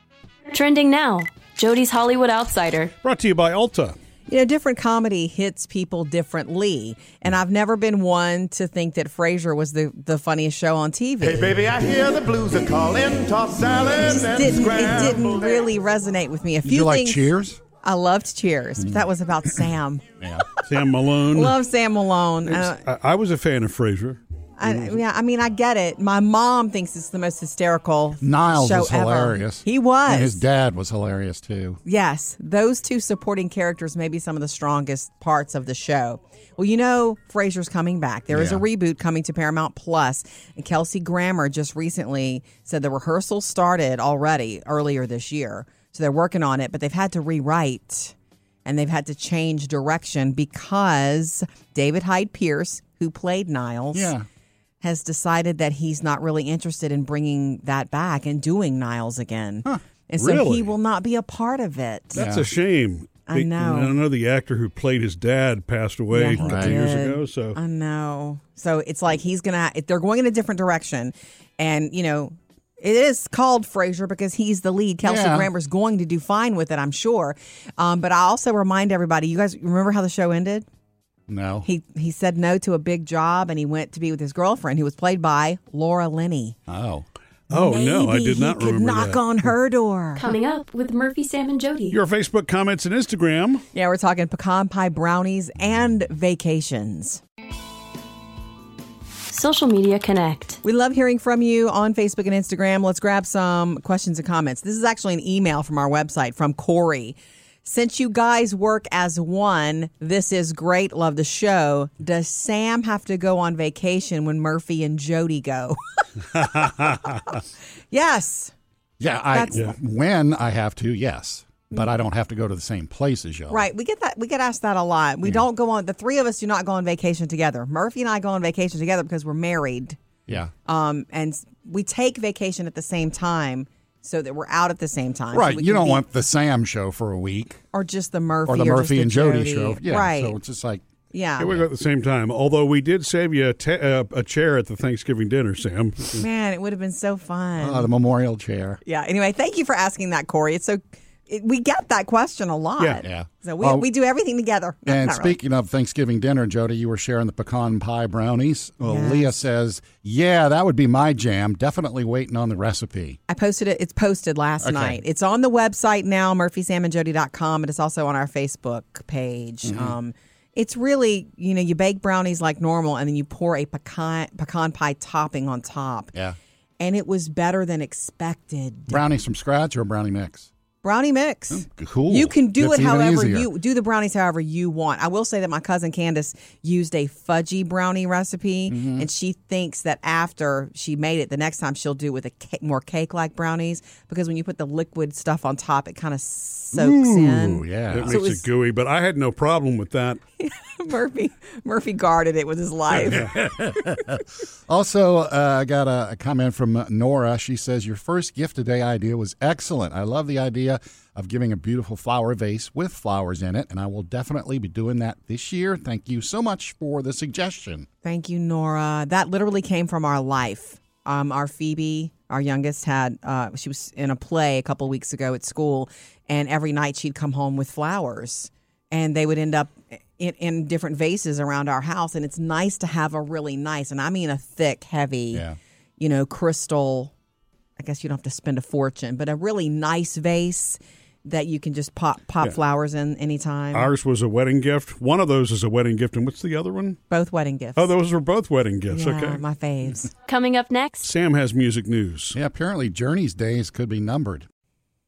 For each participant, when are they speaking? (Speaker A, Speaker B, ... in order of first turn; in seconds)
Speaker A: 0.5-2.9, 90.2-92.0, 99.3-100.6, 250.3-251.1
Speaker B: 3.0-4.0, 20.7-21.6, 22.5-24.2, 60.2-60.7, 62.1-67.6, 87.5-89.5, 91.9-93.6, 116.4-117.2, 141.4-146.2, 196.8-200.2, 243.7-247.0, 247.8-249.4, 251.0-252.4
Speaker C: 4.3-11.5, 14.0-20.1, 21.3-22.8, 24.6-30.4, 31.9-54.1, 54.8-62.2, 63.3-64.0, 66.1-80.7, 81.6-86.6, 87.5-90.3, 93.7-97.2, 100.6-115.8, 116.3-117.1, 117.9-118.5, 119.3-119.6, 123.5-130.0, 130.7-136.0, 137.7-140.4, 141.1-141.6, 146.2-147.9, 148.8-155.4, 158.8-159.3, 163.3-176.1, 176.8-179.0, 180.8-198.4, 200.4-203.4, 218.0-235.4, 236.0-237.1, 237.8-243.9, 247.1-247.9, 248.9-250.1
Speaker D: 11.2-15.7
Speaker E: 16.6-17.6, 20.2-20.5, 24.6-25.0, 28.2-31.8, 38.3-38.6, 53.9-54.3, 62.1-62.5, 66.4-66.8, 75.0-75.5, 81.3-81.7, 86.7-87.1, 119.0-123.7, 130.3-130.5, 135.3-137.6, 138.5-140.8, 147.6-148.8, 153.0-153.9, 154.9-163.2, 164.6-165.0, 169.7-170.0, 178.9-180.5, 181.5-183.5, 188.7-189.1, 197.1-198.2, 203.0-217.9, 235.3-235.6, 252.3-254.5